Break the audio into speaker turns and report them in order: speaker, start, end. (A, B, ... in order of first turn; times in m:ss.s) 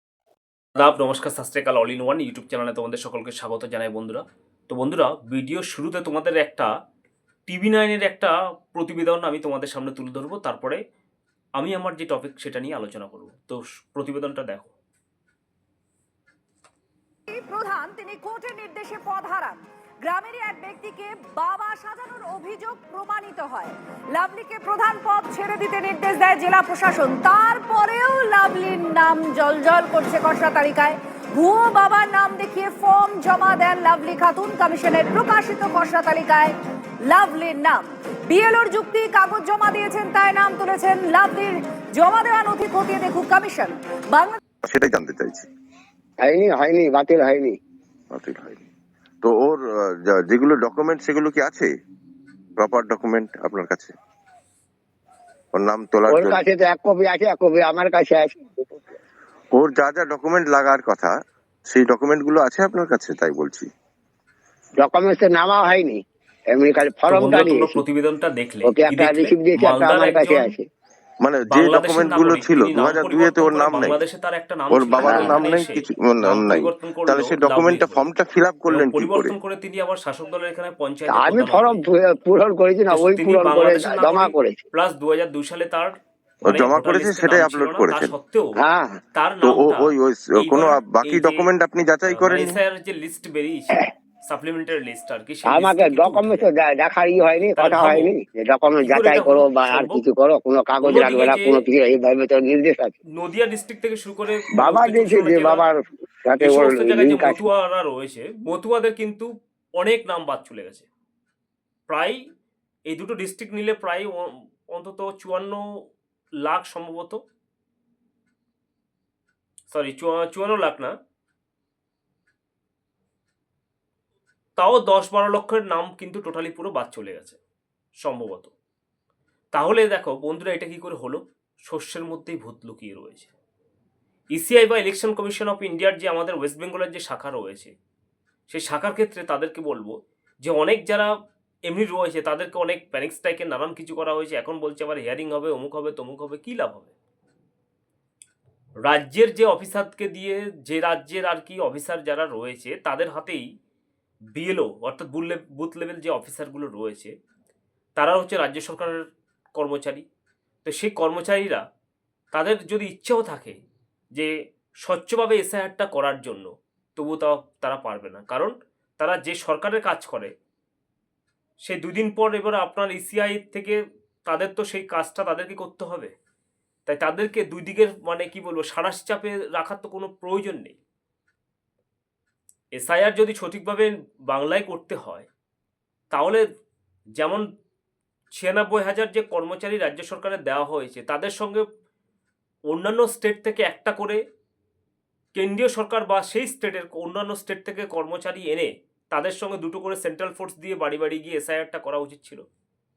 0:00.8-0:06.7 A
0:07.5-0:10.8 A
0:11.6-0:14.7 A
0:17.3-0:36.5 B
0:37.0-0:44.4 B
0:44.6-0:45.5 C
0:46.2-0:47.6 D
0:48.1-0:48.6 C
0:49.2-0:51.7 C
0:52.6-0:53.9 C
0:55.5-0:56.4 C
0:56.1-0:58.8 D
0:59.6-1:01.1 C
1:01.7-1:03.7 C
1:04.8-1:06.0 D
1:06.5-1:07.8 D
1:07.1-1:10.5 A
1:08.6-1:10.7 D
1:11.2-1:14.0 C
1:11.5-1:18.1 A
1:14.7-1:19.3 C
1:15.0-1:15.3 D
1:18.7-1:21.8 A
1:21.1-1:24.6 D
1:22.9-1:28.5 A
1:26.5-1:28.1 C
1:28.6-1:29.0 D
1:29.1-1:31.5 A
1:29.4-1:32.6 C
1:32.0-1:36.4 A
1:35.5-1:42.9 D
1:37.5-1:38.1 A
1:38.8-1:40.0 A
1:40.8-1:41.6 A
1:43.2-1:45.6 A
1:44.6-1:47.4 D
1:46.4-1:50.9 A
1:51.9-1:52.2 A
1:52.9-1:55.6 A
1:56.4-1:57.2 A
1:59.7-2:00.9 A
2:04.6-2:07.4 A
2:08.0-2:08.5 A
2:09.5-2:13.3 A
2:14.3-2:17.7 A
2:18.5-2:21.1 A
2:21.7-2:26.9 A
2:28.8-2:33.4 A
2:34.3-2:37.1 A
2:38.0-2:39.0 A
2:39.6-2:40.0 A
2:40.6-2:41.6 A
2:42.3-2:43.6 A
2:44.8-2:50.3 A
2:51.6-2:56.1 A
2:56.8-3:00.8 A
3:02.7-3:05.3 A
3:06.1-3:06.4 A
3:07.2-3:07.4 A
3:08.4-3:11.6 A
3:12.7-3:14.2 A
3:15.3-3:22.4 A